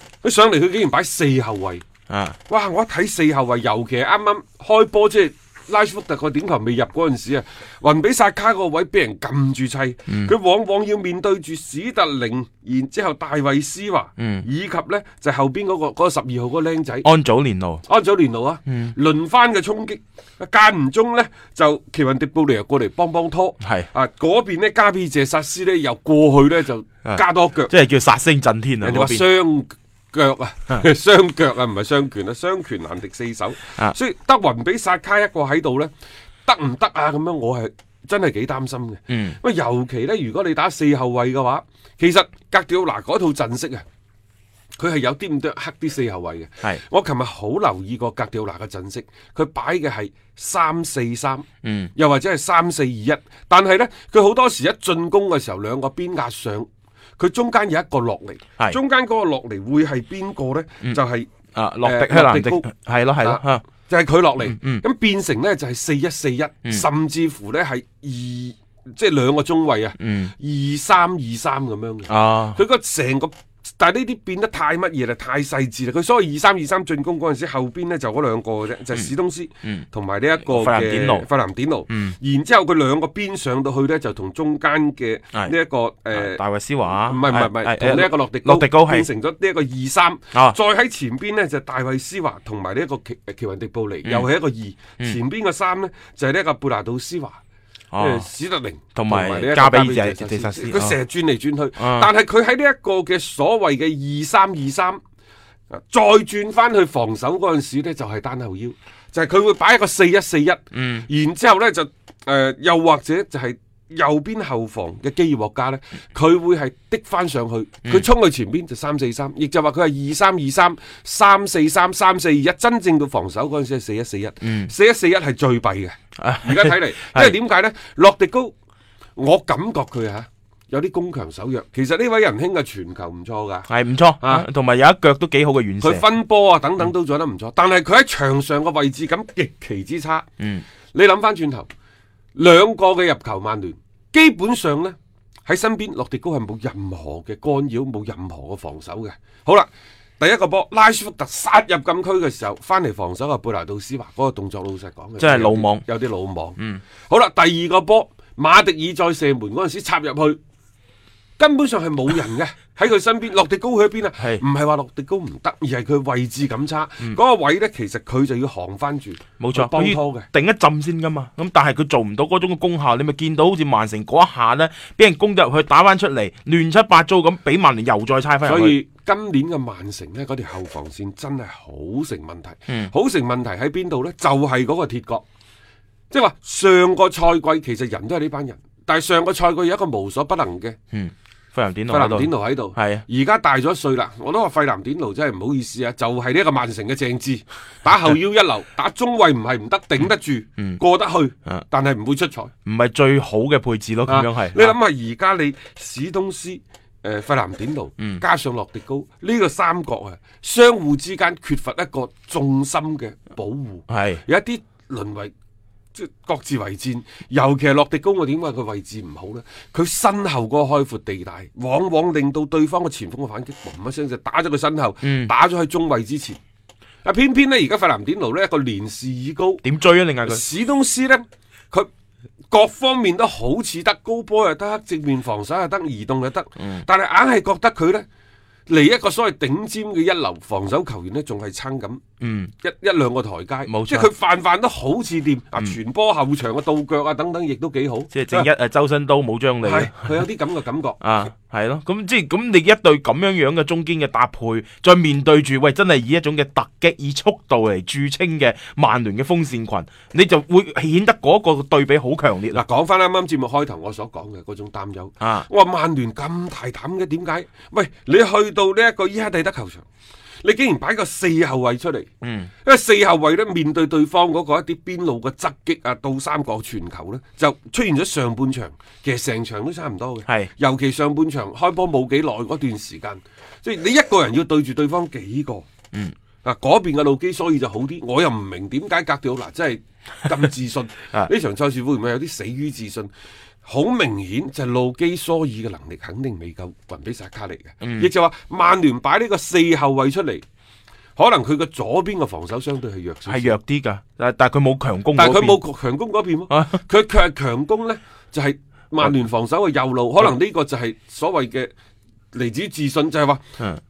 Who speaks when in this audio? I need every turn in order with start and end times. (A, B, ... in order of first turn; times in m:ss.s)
0:00.2-0:01.8 A
0:02.1-0:02.4 B
0:02.5-0:17.1 A
0:14.2-0:14.5 B
0:17.0-0:17.8 B
0:17.9-0:27.7 A
0:18.7-0:18.9 B
0:23.6-0:23.9 B
0:27.0-0:29.3 B
0:28.8-0:35.9 A
0:36.4-0:43.8 A
0:39.1-0:39.4 B
0:44.8-1:01.3 A
0:51.6-0:51.9 B
1:01.6-1:03.6 B
1:01.8-1:02.7 A
1:03.2-1:26.4 A
1:04.4-1:04.8 B
1:10.0-1:10.3 B
1:12.1-1:12.6 B
1:20.4-1:21.2 B
1:21.9-1:22.2 B
1:26.1-1:29.1 B
1:27.0-1:37.4 A
1:34.0-1:34.3 B
1:37.9-1:38.3 B
1:38.0-1:45.0 A
1:39.0-1:41.0 B
1:41.8-1:42.1 B
1:45.7-2:08.5 A
1:50.7-1:51.1 B
2:04.4-2:04.7 B
2:06.2-2:07.4 B
2:09.2-2:13.7 A
2:13.7-2:16.1 B
2:15.8-2:20.3 A
2:20.9-2:21.7 A
2:22.4-2:40.4 A
2:35.2-2:35.8 B
2:41.4-2:50.3 A
2:44.2-2:44.4 B
2:49.4-2:58.8 B
2:58.4-3:05.2 A
3:06.1-3:10.8 A
3:10.9-3:13.0 B
3:11.9-3:22.5 A
3:22.7-3:24.8 B
3:24.1-3:35.3 A
3:33.9-3:34.2 B
3:36.0-3:46.4 A
3:45.0-3:45.3 B
3:47.0-3:49.6 A
3:49.6-3:50.4 B
3:50.2-3:51.9 A
3:52.5-3:58.1 A
3:56.6-3:56.8 B
3:58.7-4:02.0 A
4:02.2-4:02.5 B
4:02.6-4:08.5 A
4:03.7-4:04.1 B
4:08.1-4:10.3 B
4:09.6-4:11.0 A
4:11.0-4:22.6 B
4:22.5-4:29.8 A
4:25.2-4:25.5 B
4:30.4-4:32.1 A
4:32.2-4:32.5 B
4:32.6-4:45.7 A
4:46.4-4:53.1 A
4:53.6-5:00.4 A
4:57.8-4:58.1 B
5:01.2-5:03.6 A
5:03.3-5:05.6 B
5:05.2-5:11.7 A
5:06.5-5:06.8 B
5:12.3-5:13.4 A